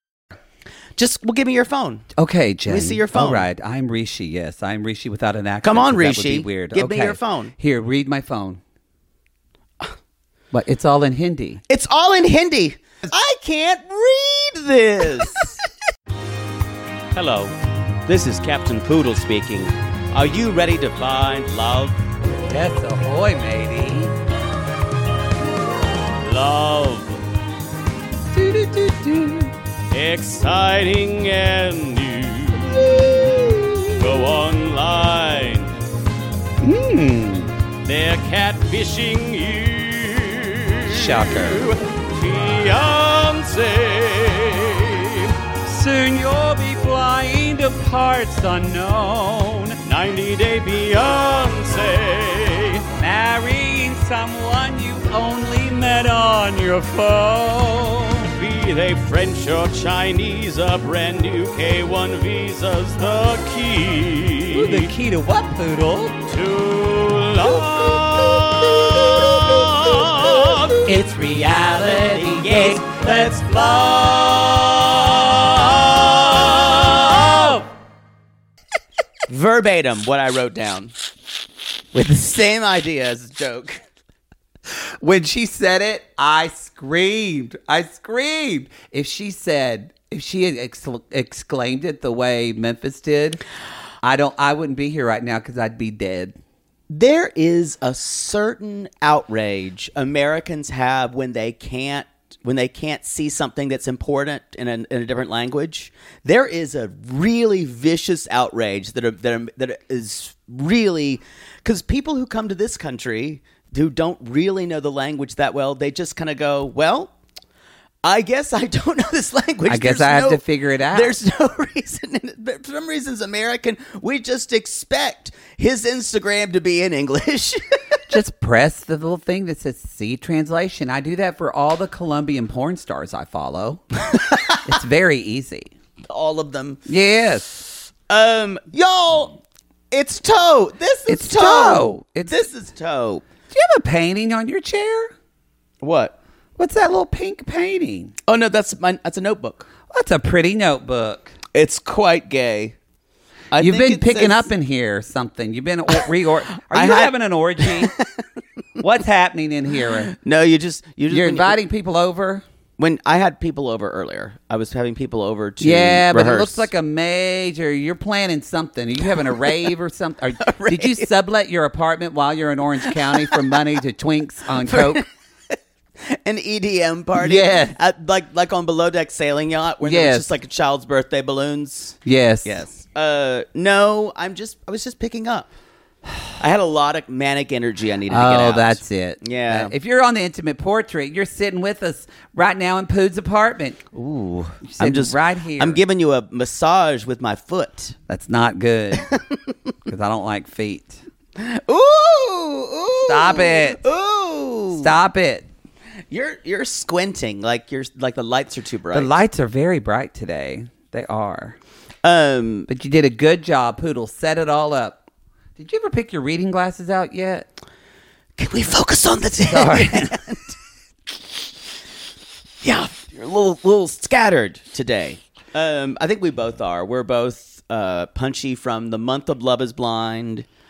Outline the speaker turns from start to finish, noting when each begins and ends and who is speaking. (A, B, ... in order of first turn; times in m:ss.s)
0:01.0-0:02.1 A
0:02.2-0:08.6 B
0:02.7-0:03.5 A
0:05.6-0:07.5 A
0:10.5-0:11.6 B
0:11.7-0:15.6 A
0:17.1-0:17.5 C
0:18.1-0:22.0 C
0:19.2-0:19.5 A
0:22.4-0:24.1 B
0:26.2-0:27.2 C
0:28.3-0:29.5 B
0:29.9-0:32.5 C
0:32.7-0:34.0 B
0:34.0-0:35.7 C
0:36.6-0:37.6 B
0:37.8-0:45.3 C
0:40.9-0:41.8 B
0:45.6-0:49.8 B
0:49.8-0:52.8 C
0:53.0-0:58.3 B
0:58.3-1:04.9 C
1:04.5-1:06.2 B
1:06.3-1:10.6 C
1:10.9-1:13.0 B
1:12.4-1:16.8 C
1:17.3-1:17.7 B
1:19.3-1:20.9 A
1:21.9-1:23.8 A
1:25.0-1:33.4 B
1:34.0-1:36.4 B
1:36.9-1:57.1 A
1:58.0-2:08.0 A
1:59.7-2:01.2 B
2:08.1-2:13.8 B
2:14.1-2:14.7 A
2:14.6-2:15.7 B
2:16.1-2:16.8 A
2:16.9-2:17.6 B
2:18.1-2:19.4 A
2:19.9-2:23.2 A
2:21.1-2:22.4 B
2:23.5-2:25.1 B
2:25.8-2:26.2 A
2:26.6-2:28.1 B
2:28.3-2:29.7 A
2:29.9-2:31.3 B
2:31.5-2:32.8 A
2:33.5-2:34.5 A
2:33.6-2:37.9 B
2:36.7-2:38.1 A
2:38.8-2:40.1 B
2:40.1-2:41.6 A
2:41.1-2:42.4 B
2:42.8-2:46.7 A
2:45.6-2:55.0 B
2:50.4-2:51.1 A
2:53.1-2:53.4 A
2:54.6-3:05.5 A
2:57.2-2:57.8 B
2:59.8-3:00.3 B
3:02.0-3:02.6 B
3:06.4-3:09.7 A
3:08.1-3:13.9 B
3:13.9-3:18.0 A
3:14.7-3:15.8 B
3:18.1-3:19.1 B
3:19.9-3:21.0 B
3:21.4-3:24.9 A
3:23.1-3:23.8 B
3:24.8-3:25.5 B
3:26.1-3:29.2 A
3:28.9-3:31.6 B
3:32.0-3:32.7 A
3:32.7-3:35.0 B
3:35.6-3:37.5 B
3:38.4-3:40.5 A
3:39.5-3:40.2 B
3:42.6-3:50.5 A